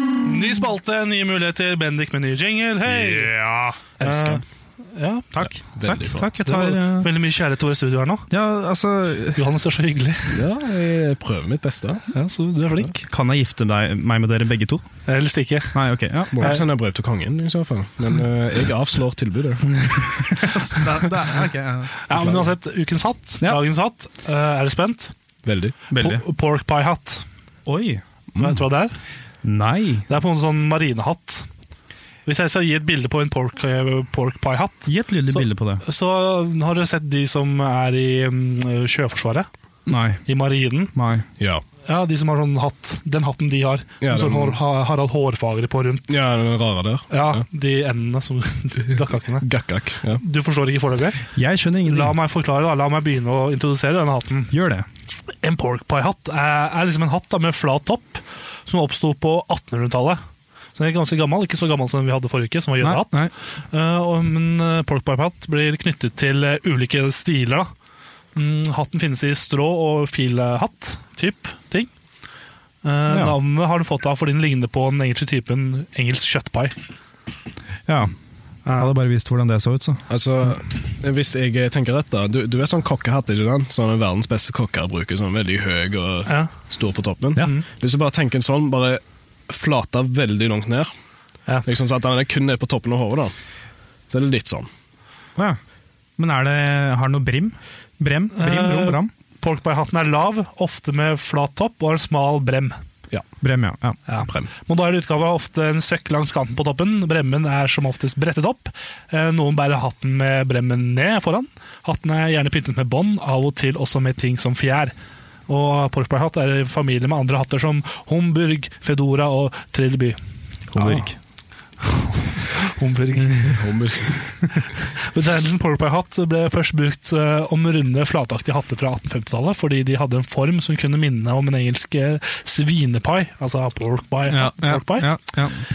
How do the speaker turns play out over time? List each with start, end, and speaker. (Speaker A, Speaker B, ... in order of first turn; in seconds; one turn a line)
Speaker A: 0.2-3.3
Speaker B: 2.9-3.9
Speaker C: 4.0-4.4
Speaker A: 4.0-5.3
Speaker B: 5.3-7.1
Speaker C: 5.4-6.3
Speaker A: 6.4-8.3
Speaker B: 8.3-9.4
Speaker A: 9.3-10.4
Speaker C: 10.3-12.1
Speaker A: 12.1-13.0
Speaker B: 12.9-14.8
Speaker A: 15.1-15.8
Speaker B: 15.7-16.5
Speaker C: 16.3-20.0
Speaker B: 19.8-22.0
Speaker A: 22.0-25.1
Speaker C: 22.1-22.5
Speaker C: 25.4-25.8
Speaker A: 25.9-27.2
Speaker B: 25.9-26.2
Speaker B: 27.7-28.0
Speaker A: 28.4-29.0
Speaker B: 29.4-30.1
Speaker A: 30.1-31.5
Speaker A: 32.3-39.5
Speaker B: 34.9-35.8
Speaker B: 39.9-40.2
Speaker A: 40.3-40.9
Speaker B: 41.0-41.3
Speaker C: 41.4-41.6
Speaker A: 41.9-46.2
Speaker C: 44.0-44.6
Speaker C: 46.1-47.4
Speaker A: 47.1-49.5
Speaker C: 49.4-50.2
Speaker A: 50.2-51.3
Speaker B: 51.4-52.1
Speaker A: 51.9-54.5
Speaker B: 54.5-54.9
Speaker A: 55.4-60.2
Speaker A: 60.8-67.7
Speaker B: 62.8-63.3
Speaker A: 68.3-71.9
Speaker A: 72.8-76.8
Speaker B: 73.1-73.4
Speaker B: 77.9-78.1
Speaker B: 78.7-80.0
Speaker C: 80.1-90.9
Speaker A: 86.3-86.5
Speaker A: 87.4-87.7
Speaker C: 91.7-93.3
Speaker C: 94.1-94.7
Speaker B: 96.2-99.1
Speaker A: 98.3-102.8
Speaker B: 103.4-104.0
Speaker A: 104.1-114.9
Speaker C: 104.2-104.5
Speaker A: 115.5-120.2
Speaker B: 120.7-121.2
Speaker A: 121.8-123.6
Speaker C: 123.5-124.2
Speaker A: 124.9-135.1
Speaker B: 134.3-135.6